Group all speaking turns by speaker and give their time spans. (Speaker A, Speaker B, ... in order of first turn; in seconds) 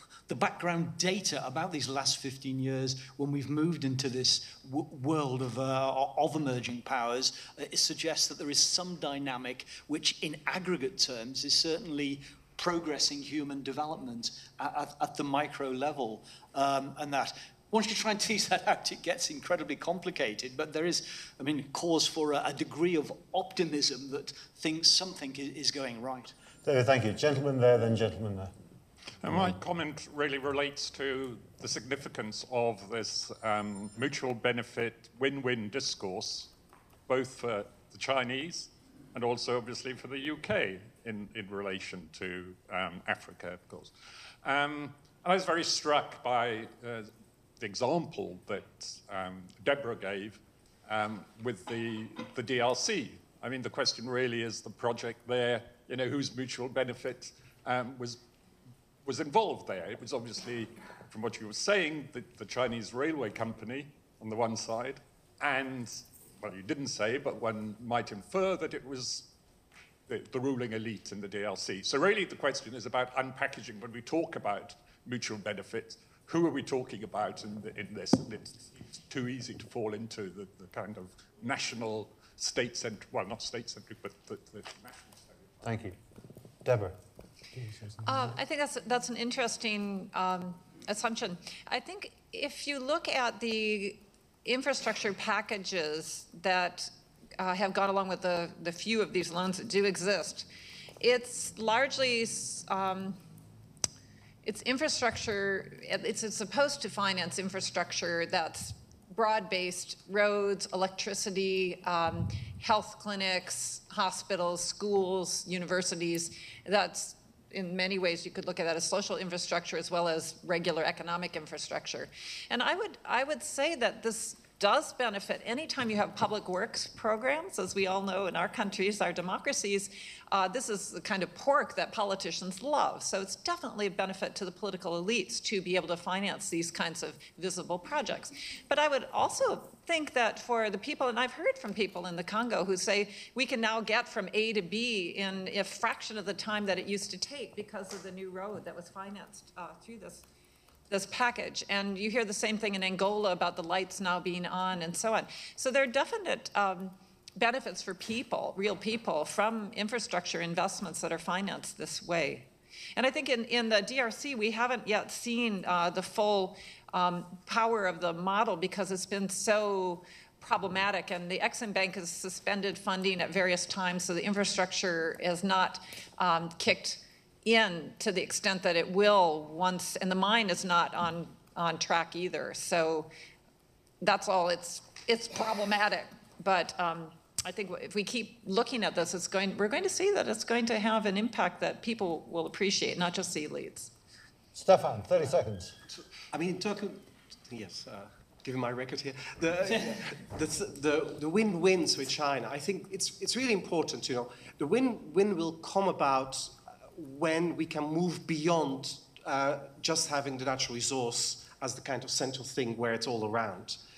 Speaker A: 0.3-26.3
Speaker B: 26.6-28.5, 29.3-29.6, 85.6-85.9, 86.6-87.0, 87.5-88.0, 194.5-195.7
Speaker C: 29.2-36.5, 37.1-58.2, 59.0-69.3, 70.1-85.5
Speaker D: 88.0-100.5, 101.0-103.2, 104.4-150.2, 150.9-183.1, 184.0-193.9
Speaker E: 196.0-213.8